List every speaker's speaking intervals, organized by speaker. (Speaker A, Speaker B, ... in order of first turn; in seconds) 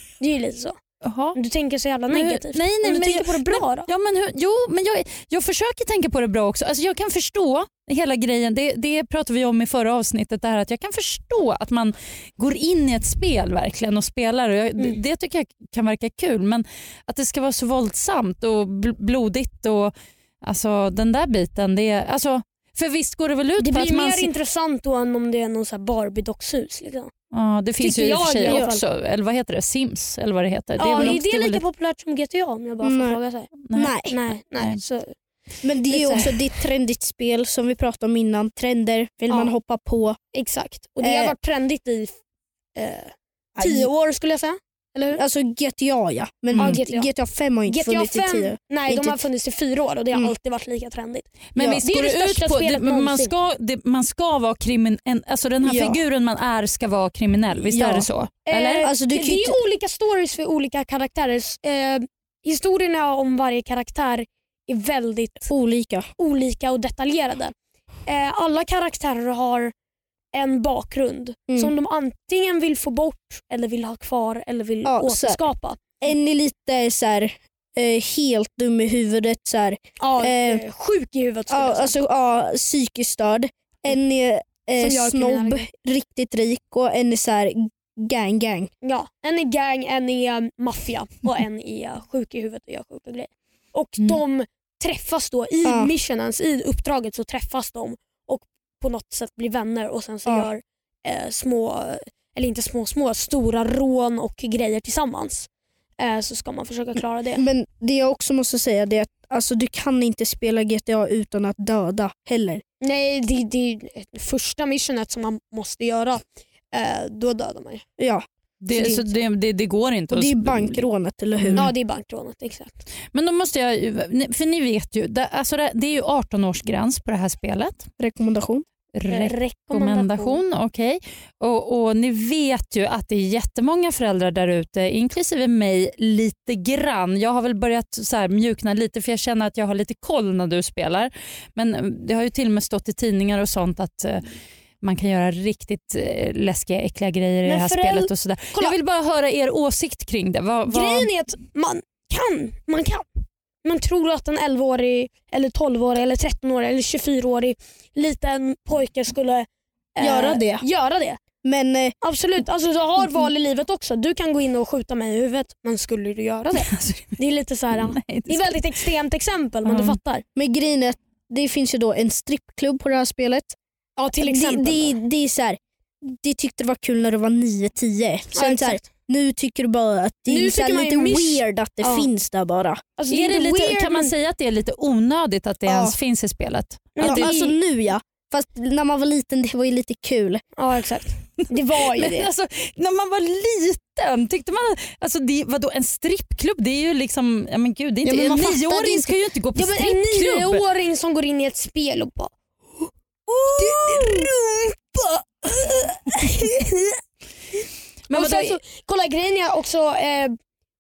Speaker A: 0.2-0.8, 1.3-3.9, 23.6-27.1, 27.8-28.8, 30.8-33.5, 34.0-35.1, 35.9-36.4, 40.3-42.2, 42.8-45.2, 46.6-47.1, 47.7-51.3, 51.8-53.3, 58.5-65.5, 66.2-67.5, 68.1-69.7, 70.3-75.8, 80.0-82.0, 84.8-85.7, 88.8-105.5, 106.0-107.4, 112.8-117.8, 118.7-119.1, 121.6-122.8, 129.1-130.4, 147.5-148.8, 150.7-153.1, 153.6-161.2, 162.0-170.2, 174.0-175.0, 178.3-178.8, 180.3-182.1, 183.0-184.1, 186.9-187.5, 190.6-192.3, 199.6-202.9, 203.5-207.0, 208.1-210.4
Speaker B: 1.0-1.4, 2.1-24.3, 27.3-31.6, 33.7-34.8, 51.5-58.9, 118.6-120.8, 121.4-121.7, 123.1-127.9, 128.9-144.2, 144.8-151.1, 166.6-167.2, 167.8-168.7, 169.7-170.0, 183.1-187.3, 192.0-200.6, 208.1-208.6
Speaker C: 28.4-28.7, 30.9-31.2, 32.8-33.2, 33.7-34.1, 35.6-40.2, 41.0-41.3, 43.6-43.9, 45.2-49.2, 51.6-51.8, 55.6-56.0, 57.6-58.1, 58.8-59.6, 65.5-66.1, 74.8-75.4, 76.0-80.6, 81.5-88.7, 95.7-95.9, 107.4-112.6, 118.0-119.0, 120.1-121.7, 128.0-128.7, 160.0-160.7, 161.4-162.0, 170.3-173.6, 174.2-182.8, 185.7-186.0, 187.0-190.4, 198.1-199.1